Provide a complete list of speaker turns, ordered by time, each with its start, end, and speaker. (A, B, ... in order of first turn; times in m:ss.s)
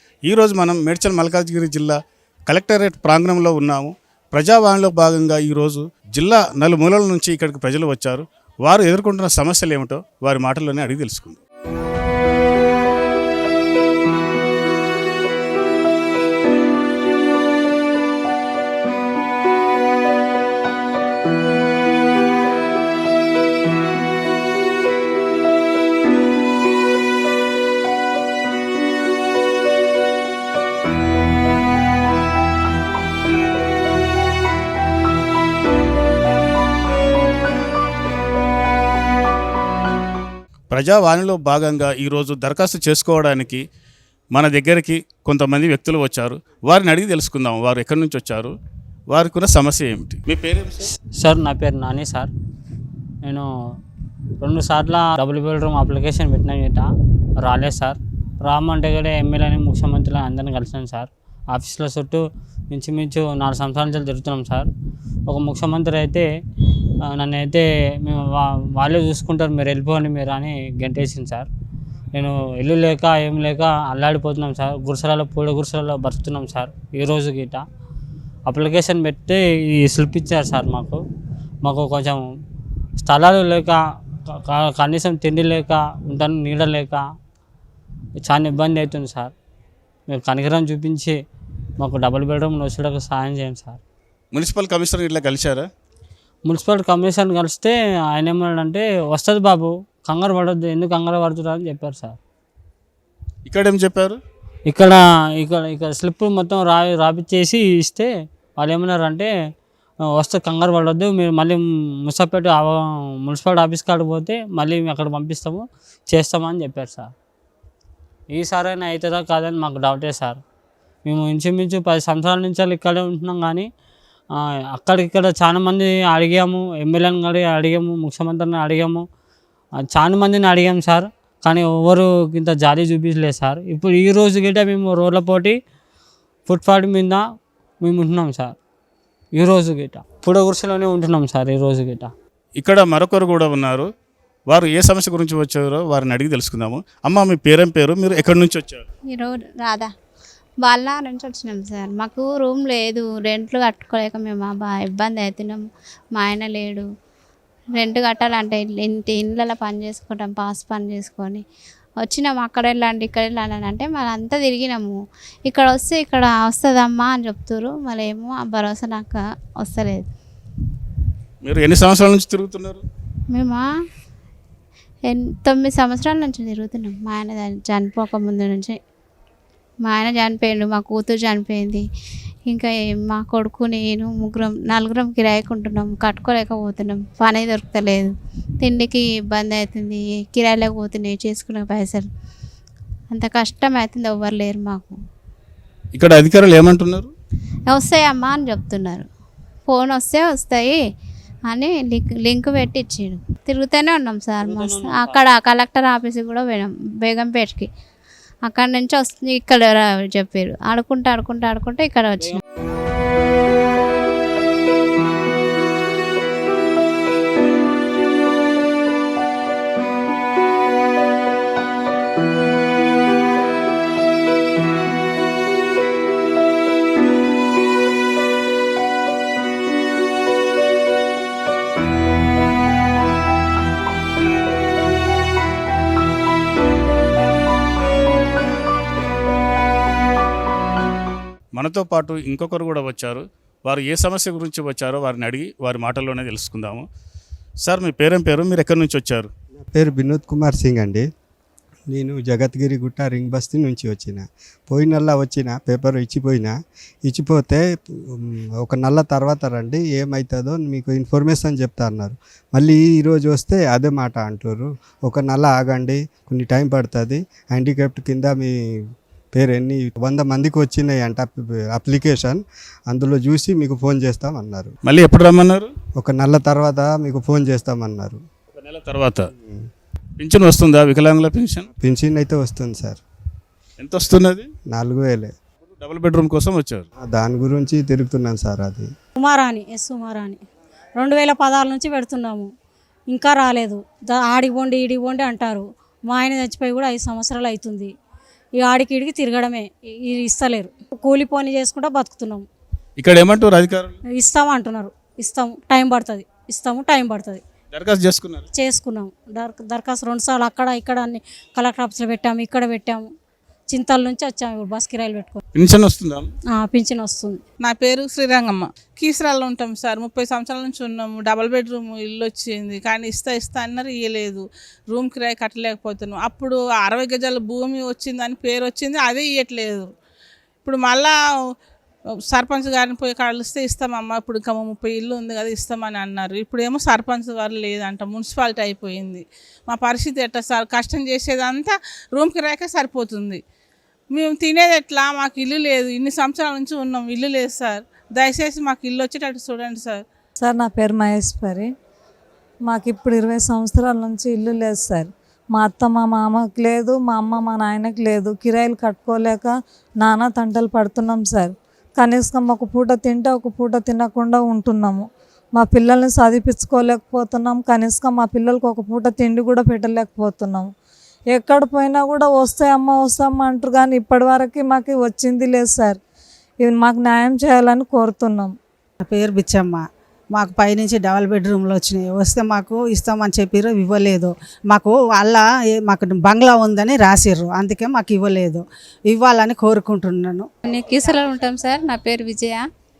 0:00.2-0:11.4 A
0:40.7-0:43.6 A
0:44.3-0:48.5 A
0:49.1-0:50.8 A
0:51.2-0:52.3 B
0:54.4-0:56.9 B
0:57.4-1:04.7 B
1:05.2-1:06.2 B
1:07.0-1:11.5 B
1:12.1-1:17.6 B
1:18.4-1:21.0 B
1:21.6-1:22.3 B
1:23.0-1:27.0 B
1:28.2-1:29.3 B
1:30.1-1:31.2 B
1:31.8-1:33.8 B
1:34.3-1:35.7 A
1:36.4-1:42.2 B
1:43.4-1:44.2 A
1:44.7-1:49.3 B
1:50.0-1:57.1 B
1:58.3-2:00.4 B
2:01.0-2:03.7 B
2:04.4-2:09.0 B
2:09.8-2:15.6 B
2:16.5-2:17.2 B
2:17.8-2:18.6 B
2:19.4-2:22.1 B
2:22.6-2:23.9 A
2:24.5-2:28.8 A
2:29.1-2:29.9 C
2:30.6-2:35.6 C
2:36.1-2:36.9 C
2:37.8-2:41.4 C
2:42.0-2:50.1 C
2:51.4-2:52.8 A
2:53.3-2:53.7 C
2:55.1-2:58.8 C
2:59.8-3:01.8 C
3:02.5-3:12.1 C
3:13.1-3:15.0 C
3:15.9-3:17.1 A
3:17.7-3:19.1 C
3:19.7-3:20.8 C
3:21.5-3:27.7 C
3:24.4-3:25.2 B
3:28.4-3:32.4 C
4:01.5-4:06.9 A
4:07.6-4:09.3 A
4:09.7-4:11.0 D
4:11.9-4:16.5 D
4:17.0-4:17.6 D
4:18.1-4:28.5 D
4:29.3-4:34.7 D
4:34.8-4:35.7 A
4:36.0-4:38.2 D
4:38.6-4:39.3 A
4:40.2-4:41.7 A
4:41.8-4:43.0 D
4:43.8-4:44.5 A
4:44.7-4:45.3 D
4:45.7-4:46.8 A
4:47.0-4:48.9 D
4:49.2-4:50.4 E
4:51.0-4:52.5 E
4:53.1-4:57.9 E
4:58.6-5:02.4 E
5:03.0-5:04.0 A
5:04.2-5:07.4 E
5:07.7-5:08.4 A
5:08.5-5:13.1 E
5:13.7-5:15.4 E
5:15.5-5:16.3 A
5:16.5-5:17.4 E
5:17.6-5:29.9 F
5:30.6-5:31.1 F
5:32.3-5:43.4 F
5:44.1-5:50.0 F
5:50.4-5:51.7 G
5:52.7-6:10.7 G
6:11.3-6:16.0 G
6:16.6-6:18.5 G
6:19.0-6:19.8 H
6:20.3-6:30.5 H
6:30.6-6:32.6 I